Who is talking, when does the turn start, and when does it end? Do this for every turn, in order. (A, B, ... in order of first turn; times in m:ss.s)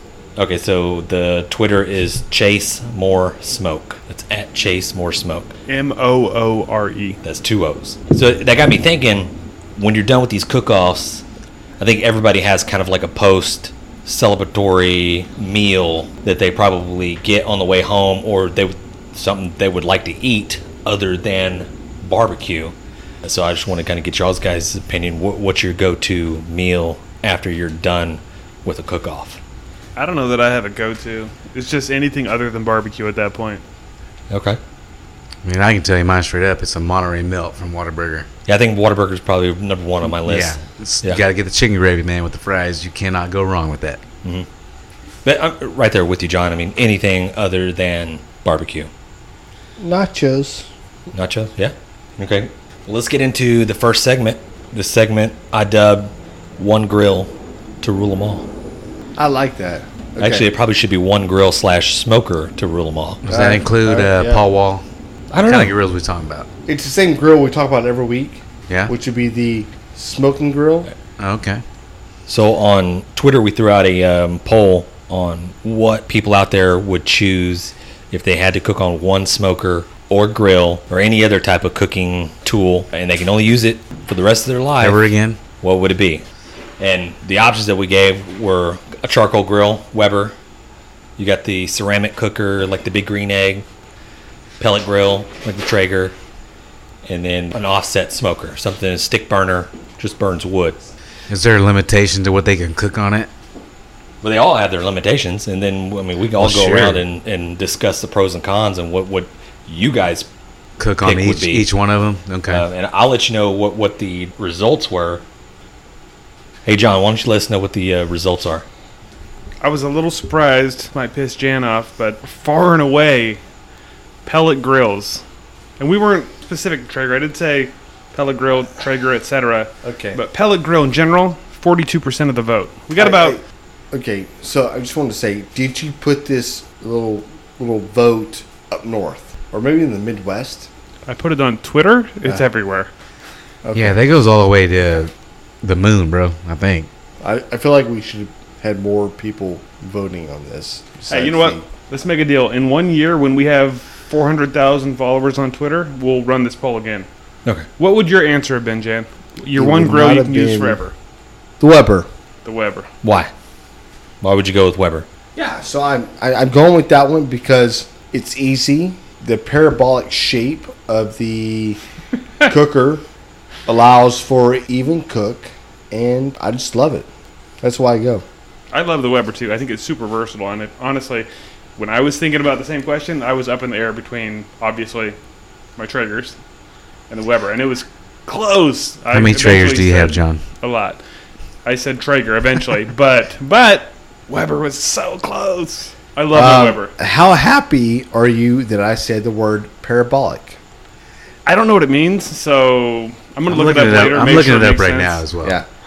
0:00.4-0:05.5 A
0:05.7-0:07.2 B
0:07.2-0:11.2 A
0:11.8-0:29.4 A
0:30.0-0:33.6 B
0:34.3-0:34.6 A
0:35.4-0:38.3 C
0:38.5-0:41.2 A
0:40.1-0:44.0 C
0:45.2-0:48.9 A
0:49.8-0:50.7 D
0:51.1-0:58.5 A
0:59.2-1:00.5 D
1:00.2-1:03.2 A
1:03.2-1:04.8 C
1:03.3-1:04.4 D
1:05.3-1:05.8 A
1:05.4-1:06.5 C
1:06.7-1:10.9 D
1:11.2-1:11.6 C
1:12.3-1:25.0 A
1:24.8-1:25.4 C
1:25.6-1:26.2 A
1:26.8-1:30.4 A
1:31.2-1:33.7 A
1:34.6-1:36.2 A
1:37.1-1:40.9 A
1:41.3-1:43.3 C
1:44.2-1:50.3 A
1:46.4-1:47.0 C
1:50.8-1:52.6 C
1:51.0-1:51.7 A
1:52.5-1:55.2 A
1:56.7-1:58.6 A
1:59.6-2:03.4 B
2:04.2-2:05.2 B
2:05.8-2:13.4 B
2:09.8-2:10.2 D
2:13.0-2:13.4 D
2:13.9-2:20.7 D
2:21.1-2:22.9 B
2:23.6-2:24.0 D
2:23.8-2:26.9 C
2:27.2-2:31.6 D
2:31.1-2:37.1 B
2:37.8-2:40.9 B
2:39.5-2:40.8 D
2:41.6-2:42.1 D
2:42.4-2:42.9 B
2:43.0-2:43.3 A
2:44.2-2:45.1 A
2:45.4-2:51.8 D
2:52.4-2:53.0 D
2:53.7-2:57.1 D
2:57.6-2:58.2 D
2:58.7-3:05.2 B
3:05.8-3:06.4 B
3:07.1-3:11.0 B
3:09.1-3:10.4 C
3:11.6-3:16.9 B
3:16.3-3:20.6 D
3:21.4-3:25.2 B
3:23.5-3:25.6 C